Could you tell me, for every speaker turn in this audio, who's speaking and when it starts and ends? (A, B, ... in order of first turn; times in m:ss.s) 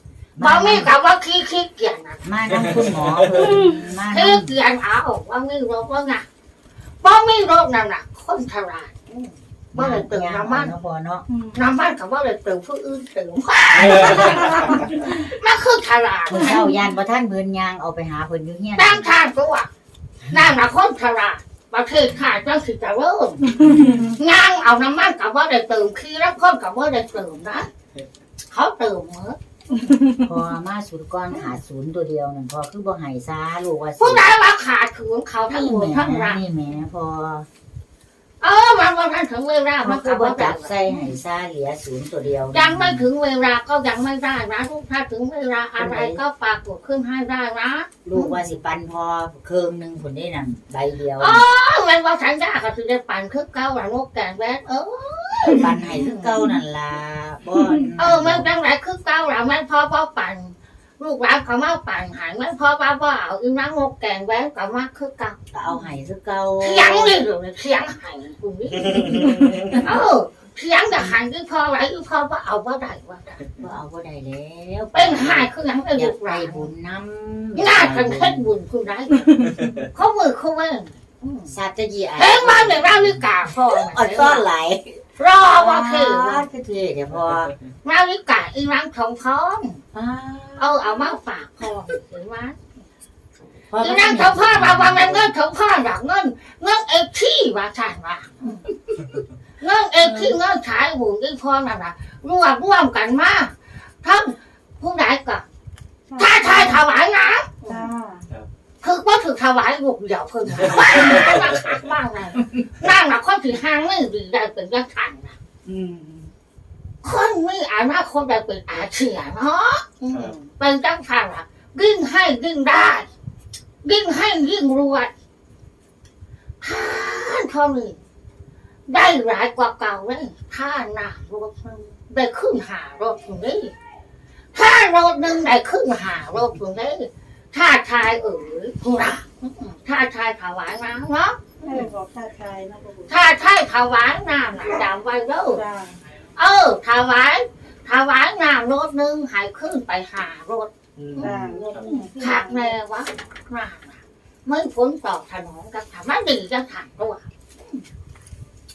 0:00.3-0:00.9 A
0:00.4-0:02.3 B
0:02.2-0:04.5 A
0:03.4-0:03.7 C
0:04.1-0:06.2 B
0:07.0-0:10.7 B
0:09.7-0:11.2 A
0:11.5-0:16.7 B
0:13.8-0:14.5 A
0:16.3-0:19.1 A
0:18.8-0:19.7 B
0:20.3-0:27.7 B
0:28.5-0:30.0 B
0:30.1-0:34.3 A
0:34.0-0:36.4 B
0:35.5-0:37.5 A
0:38.4-0:41.1 B
0:39.8-0:43.1 A
0:42.5-0:48.4 B
0:45.8-0:46.2 A
0:48.0-0:51.4 A
0:51.2-0:56.4 B
0:55.4-0:58.5 A
0:58.0-1:05.4 B
1:05.5-1:07.2 A
1:06.6-1:13.5 B
1:09.2-1:09.9 A
1:13.6-1:18.5 A
1:14.9-1:16.7 B
1:17.6-1:21.5 B
1:21.4-1:27.5 A
1:22.2-1:24.5 B
1:25.2-1:26.4 B
1:27.8-1:29.8 B
1:29.9-1:31.2 A
1:30.6-1:32.6 B
1:33.7-1:35.3 A
1:33.8-1:38.7 B
1:39.6-1:45.4 B
1:40.0-1:40.3 C
1:46.1-1:46.8 C
1:46.2-1:47.9 B
1:47.7-1:48.3 C
1:48.8-1:55.4 B
1:55.7-1:56.3 A
1:57.0-2:03.1 B
2:03.8-2:05.1 B
2:06.6-2:08.0 B
2:08.9-2:13.7 B
2:14.5-2:21.8 B
2:21.6-2:23.1 C
2:23.1-2:25.6 B
2:25.5-2:26.0 C
2:26.3-2:37.8 B
2:31.0-2:31.6 A
2:31.2-2:32.7 C